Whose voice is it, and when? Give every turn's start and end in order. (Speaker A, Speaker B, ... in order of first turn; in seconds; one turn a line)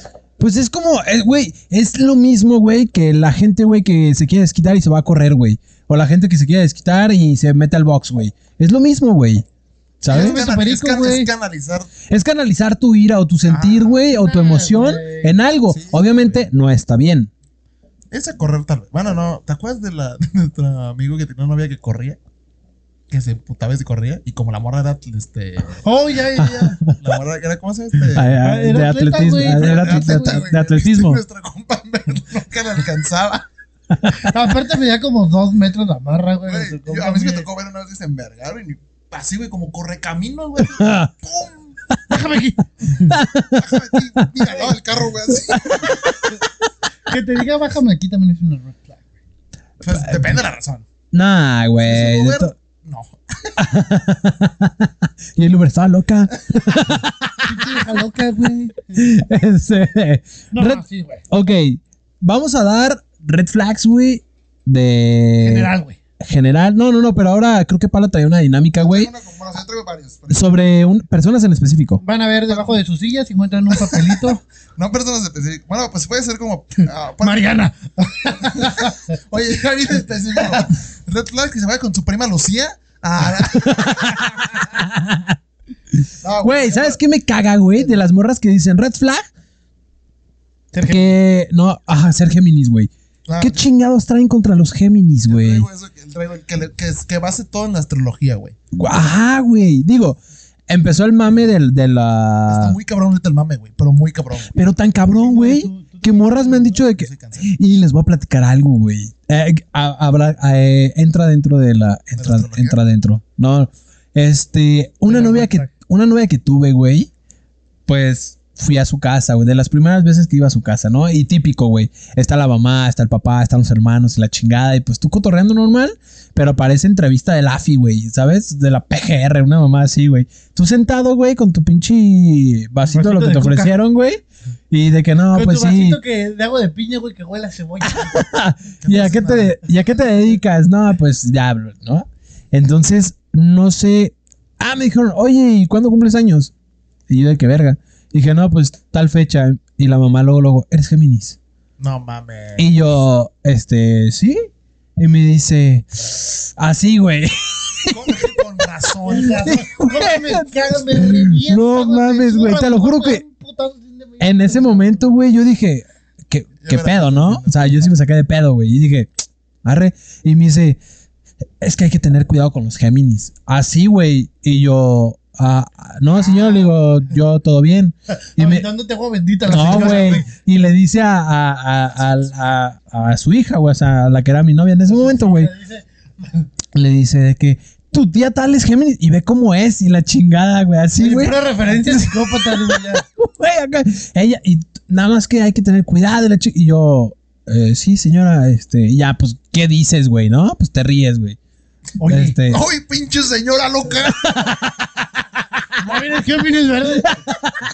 Speaker A: 0.4-9.4
Speaker A: 10.0-10.4
Speaker B: 10.1-11.9
Speaker C: 10.1-11.3
Speaker A: 12.1-17.3
Speaker B: 13.4-14.0
Speaker C: 14.1-15.4
Speaker B: 15.7-16.5
Speaker B: 18.1-22.2
Speaker B: 23.1-25.8
Speaker C: 25.8-26.8
Speaker A: 26.4-27.0
Speaker B: 26.9-28.3
Speaker A: 28.1-31.2
Speaker C: 28.4-30.5
Speaker B: 29.4-33.5
Speaker C: 34.0-37.5
Speaker B: 36.5-41.8
Speaker A: 40.7-41.1
Speaker C: 42.1-43.2
Speaker A: 43.1-44.3
Speaker B: 43.5-46.4
Speaker A: 45.5-46.4
Speaker C: 47.1-49.0
Speaker B: 49.8-50.9
Speaker A: 49.8-50.4
Speaker A: 51.1-52.5
Speaker B: 51.8-53.6
Speaker A: 53.6-57.9
Speaker C: 57.4-59.0
Speaker A: 58.9-69.1
Speaker C: 60.5-61.2
Speaker C: 65.4-66.0
Speaker B: 68.8-70.6
Speaker A: 70.3-72.0
Speaker C: 72.0-74.4
Speaker B: 73.8-77.5
Speaker C: 77.2-79.1
Speaker B: 78.4-84.7
Speaker A: 83.6-85.4
Speaker B: 86.2-87.0
Speaker A: 86.4-89.3
Speaker B: 87.7-88.0
Speaker C: 90.7-91.1
Speaker A: 90.8-95.6
Speaker B: 93.2-93.7
Speaker B: 95.2-98.5
Speaker A: 98.7-100.2
Speaker A: 100.7-102.8
Speaker B: 102.5-104.5
Speaker A: 104.5-117.1
Speaker C: 105.1-106.8
Speaker B: 106.9-107.5
Speaker B: 112.2-112.8
Speaker C: 115.1-115.7
Speaker A: 117.9-136.0
Speaker C: 132.8-133.7
Speaker C: 135.3-138.2
Speaker A: 137.9-146.5
Speaker B: 138.8-139.6
Speaker A: 147.1-151.4
Speaker B: 151.8-153.0
Speaker A: 152.6-158.4
Speaker B: 157.9-159.6
Speaker C: 159.0-165.1
Speaker A: 159.1-163.2
Speaker A: 164.2-169.1
Speaker B: 166.6-167.9
Speaker A: 169.6-170.8
Speaker A: 171.6-178.6
Speaker B: 176.1-177.2
Speaker C: 178.4-180.3
Speaker A: 179.4-185.5
Speaker B: 179.5-180.2
Speaker B: 182.0-182.3
Speaker C: 184.9-185.8
Speaker A: 186.7-201.4
Speaker C: 191.0-193.0
Speaker C: 202.0-202.4
Speaker A: 202.1-202.6
Speaker B: 202.5-204.7
Speaker A: 204.2-204.8
Speaker C: 205.8-207.2
Speaker A: 207.1-207.6